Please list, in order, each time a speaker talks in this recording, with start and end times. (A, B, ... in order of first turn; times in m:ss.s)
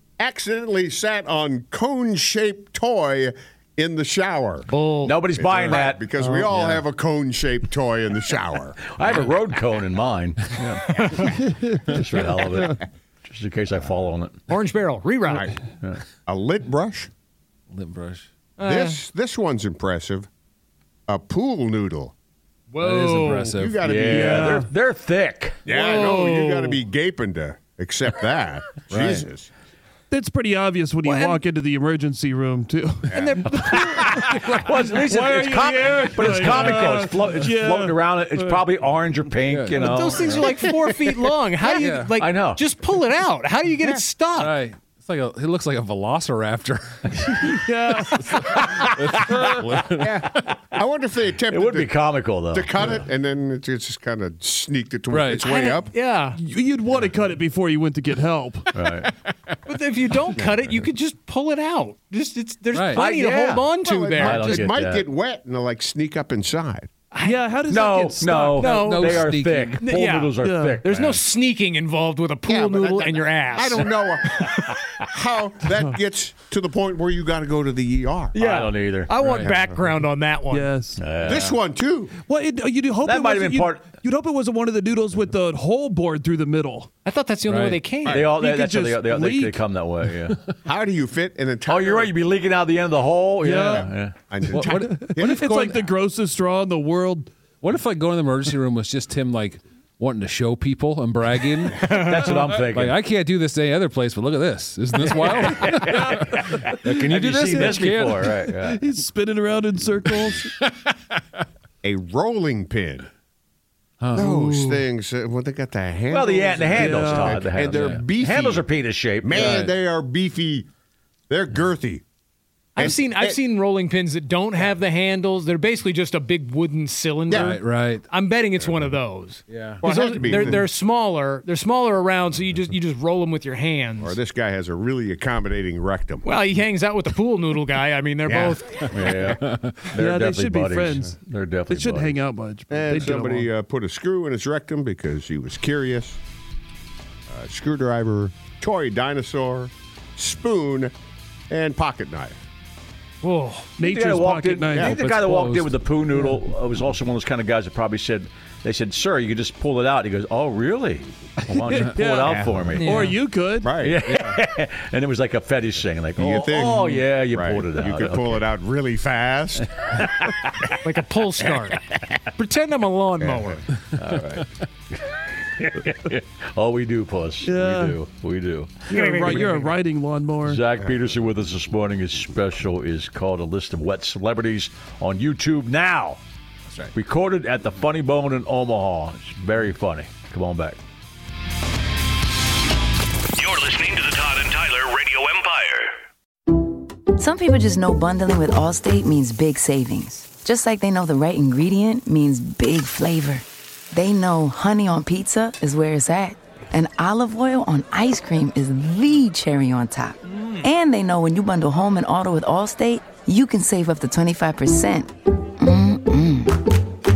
0:00.2-0:04.7 A
0:04.7-0:05.2 B
0:05.0-0:06.0 C
0:05.3-0:08.9 A
0:06.2-0:06.8 D
0:08.9-0:14.4 C
0:11.0-0:11.3 B
0:11.2-0:12.8 D
0:14.5-0:15.5 B
0:16.2-0:17.1 A
0:17.7-0:18.2 E
0:18.6-0:19.0 B
0:18.6-0:20.3 A
0:21.1-0:22.1 A
0:22.7-0:23.5 B
0:22.8-0:23.8 E
0:23.5-0:24.7 A
0:23.8-0:25.6 C
0:24.1-0:24.7 D
0:25.6-0:29.5 A
0:25.7-0:26.8 B
0:28.9-0:29.2 E
0:30.1-0:38.6 D
0:31.0-0:31.4 B
0:33.1-0:34.2 A
0:33.1-0:34.0 B
0:33.6-0:40.4 C
0:39.4-0:40.6 E
0:39.7-0:44.6 B
0:41.7-0:42.1 E
0:42.2-0:42.6 C
0:44.4-0:47.5 E
0:47.5-0:48.6 D
0:48.1-0:50.5 E
0:49.3-0:49.6 D
0:49.8-0:50.5 C
0:50.2-0:55.9 A
0:51.5-0:53.0 C
0:55.1-0:55.4 E
0:55.4-0:56.4 B
0:56.4-0:58.9 D
0:58.7-0:59.1 C
0:59.6-1:04.6 B
1:00.4-1:00.8 A
1:02.7-1:03.0 E
1:02.9-1:03.6 C
1:03.8-1:06.9 A
1:04.2-1:05.0 C
1:07.1-1:07.4 B
1:07.2-1:09.0 D
1:07.7-1:11.2 C
1:08.5-1:09.3 B
1:08.7-1:09.8 E
1:09.8-1:10.8 D
1:09.8-1:14.5 B
1:12.5-1:18.4 A
1:15.7-1:16.0 D
1:18.3-1:20.7 B
1:18.4-1:19.1 C
1:19.2-1:19.5 E
1:20.5-1:21.1 D
1:21.0-1:21.6 C
1:21.2-1:22.1 A
1:21.3-1:21.5 E
1:22.1-1:26.9 D
1:23.0-1:23.9 C
1:27.0-1:28.3 B
1:27.5-1:27.8 E
1:28.0-1:28.3 A
1:28.1-1:30.4 C
1:28.2-1:30.3 D
1:30.6-1:32.1 A
1:31.6-1:34.2 C
1:33.4-1:37.3 D
1:34.3-1:35.4 A
1:34.5-1:35.8 E
1:37.6-1:48.3 E
1:41.8-1:43.0 C
1:45.1-1:48.8 C
1:45.5-1:46.8 D
1:48.0-1:50.6 D
1:51.8-1:53.1 A
1:54.0-1:54.3 E
1:54.1-1:54.9 B
1:54.2-1:58.7 A
1:56.1-1:59.6 C
1:56.7-1:57.4 D
1:57.6-1:58.0 E
1:59.2-2:00.7 A
1:59.4-1:59.7 E
2:01.3-2:02.0 A
2:02.8-2:14.2 B
2:02.8-2:03.4 A
2:07.3-2:07.5 A
2:07.3-2:08.0 E
2:09.5-2:10.4 E
2:09.8-2:10.7 A
2:14.0-2:16.3 A
2:16.2-2:19.1 B
2:18.3-2:18.6 A
2:18.9-2:22.2 C
2:19.2-2:19.7 E
2:19.9-2:23.5 D
2:22.7-2:26.2 A
2:27.3-2:30.9 A
2:31.5-2:32.4 A
2:33.2-2:33.7 B
2:33.8-2:34.9 D
2:33.8-2:43.2 C
2:34.8-2:36.3 E
2:41.4-2:43.8 D
2:42.2-2:42.7 A
2:42.7-2:43.2 B
2:43.6-2:44.1 A
2:43.8-2:48.5 C
2:44.0-2:44.4 E
2:46.2-2:50.2 A
2:50.0-2:50.6 C
2:50.8-2:51.8 B
2:52.4-2:53.7 B
2:53.2-2:53.5 A
2:53.9-2:54.5 C
2:55.5-2:59.5 C
2:57.4-2:58.0 D
2:58.9-3:00.6 D
2:58.9-2:59.7 B
3:00.4-3:06.2 C
3:06.9-3:10.8 C
3:13.4-3:15.9 F
3:17.2-3:36.6 G